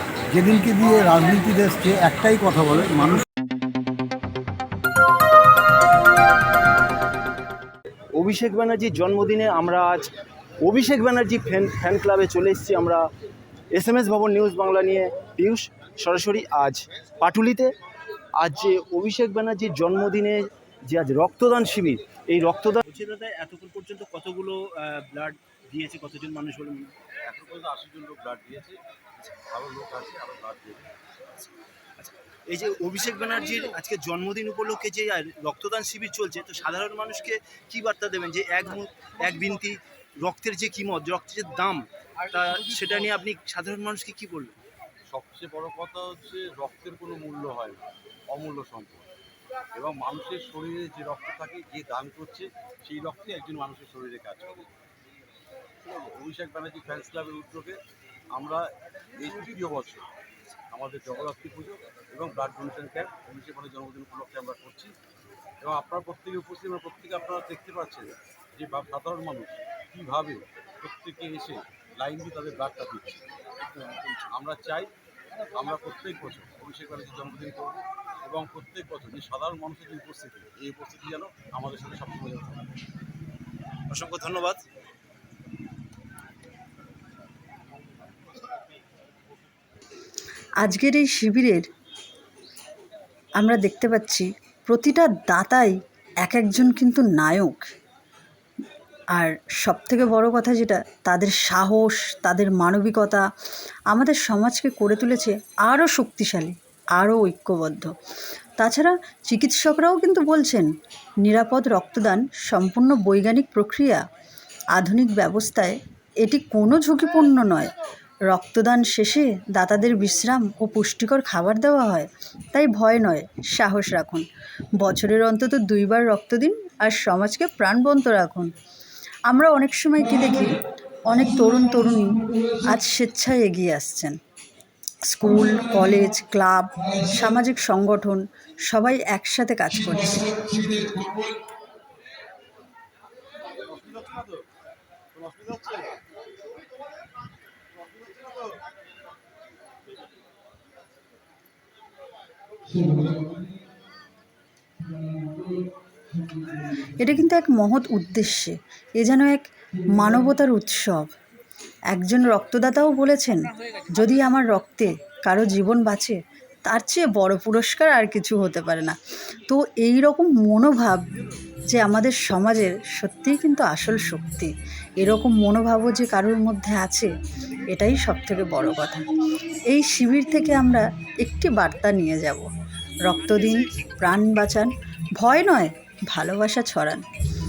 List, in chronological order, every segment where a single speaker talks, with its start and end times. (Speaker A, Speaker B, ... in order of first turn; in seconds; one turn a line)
Speaker A: 0.3-3.2
Speaker B: 8.1-10.1
Speaker B: 10.6-13.0
Speaker B: 13.7-17.7
Speaker B: 18.4-27.0
Speaker C: 27.2-28.8
Speaker C: 29.3-30.9
Speaker B: 32.0-44.6
Speaker C: 45.1-49.0
Speaker C: 49.7-54.7
Speaker C: 55.8-57.8
Speaker C: 58.3-60.0
Speaker C: 60.7-65.0
Speaker C: 65.6-73.2
Speaker C: 74.3-74.9
Speaker C: 75.5-82.7
Speaker B: 83.9-84.6
Speaker D: 90.6-91.7
Speaker D: 93.4-97.6
Speaker D: 99.1-103.2
Speaker D: 103.9-107.9
Speaker D: 108.6-110.7
Speaker D: 111.2-114.0
Speaker D: 114.8-117.7
Speaker D: 118.3-124.2
Speaker D: 124.8-128.5
Speaker D: 129.3-134.2
Speaker D: 135.1-141.3
Speaker C: 143.8-144.2
Speaker C: 145.3-145.7
Speaker D: 157.0-161.1
Speaker D: 161.9-177.1
Speaker D: 177.7-179.1
Speaker D: 179.7-182.5
Speaker D: 183.0-187.0